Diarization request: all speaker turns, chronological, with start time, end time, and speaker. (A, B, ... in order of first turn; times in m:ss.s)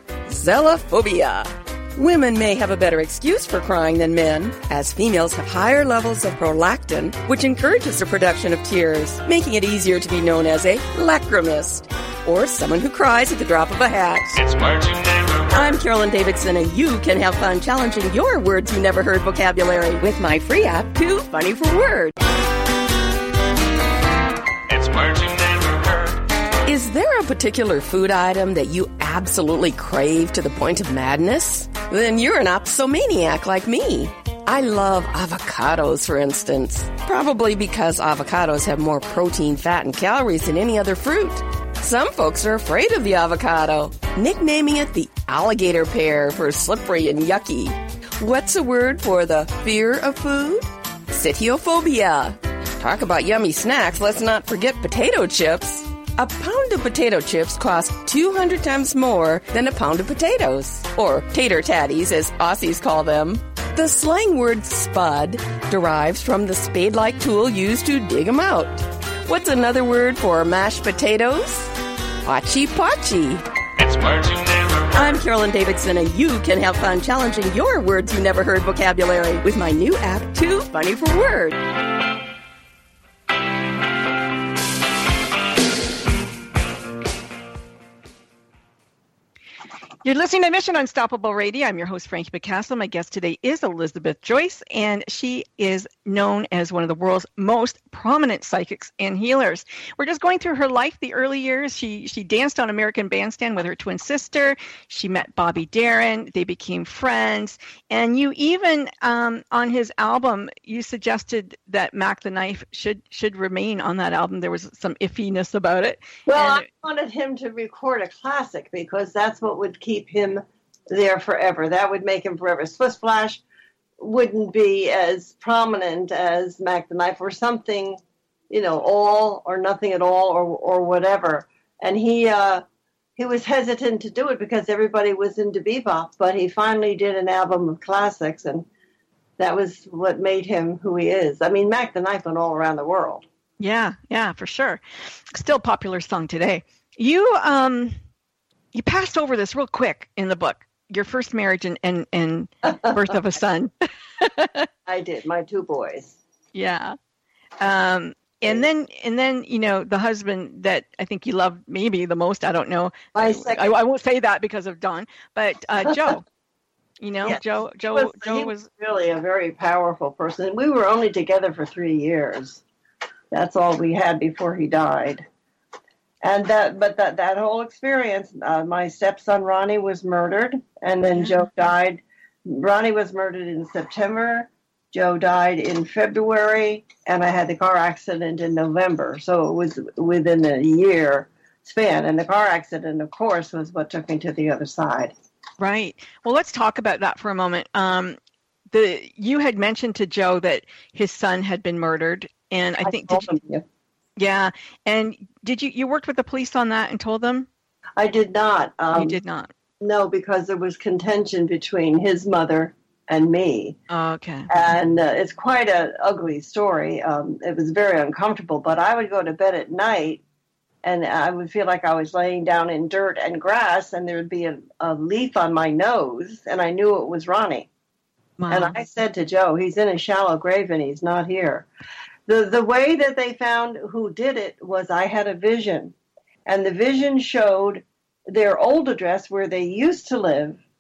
0:00.3-0:14.4 A
0:14.6-0:15.1 B
0:15.5-0:22.2 A
0:24.7-0:25.9 B
0:26.6-1:11.7 A
1:12.2-1:13.4 A
1:14.0-1:14.4 B
1:14.9-1:21.6 A
1:30.0-1:56.7 C
1:56.3-2:03.4 D
2:04.0-2:08.0 D
2:08.5-2:12.6 D
2:13.2-2:18.7 D
2:19.4-2:23.2 D
2:23.6-2:24.8 C
2:25.3-2:28.0 C
2:28.7-2:34.7 C
2:34.9-2:36.2 D
2:36.5-2:37.0 C
2:37.6-2:46.2 C
2:43.2-2:43.8 D
2:45.8-2:46.2 D
2:47.0-2:48.7 C
2:47.2-2:52.6 D
2:53.3-2:55.3 D
2:56.2-3:15.1 D
3:01.2-3:01.5 C
3:15.6-3:18.2 C
3:18.7-3:23.3 C
3:22.8-3:23.6 D
3:24.2-3:27.5 C
3:28.0-3:29.2 D
3:29.0-3:29.5 C
3:29.8-3:33.8 D
3:33.9-3:34.5 C
3:34.5-3:40.2 D
3:40.8-3:47.7 D
3:48.4-3:48.8 C
3:48.5-3:51.7 D
3:52.3-3:56.0 D
3:56.5-4:00.6 D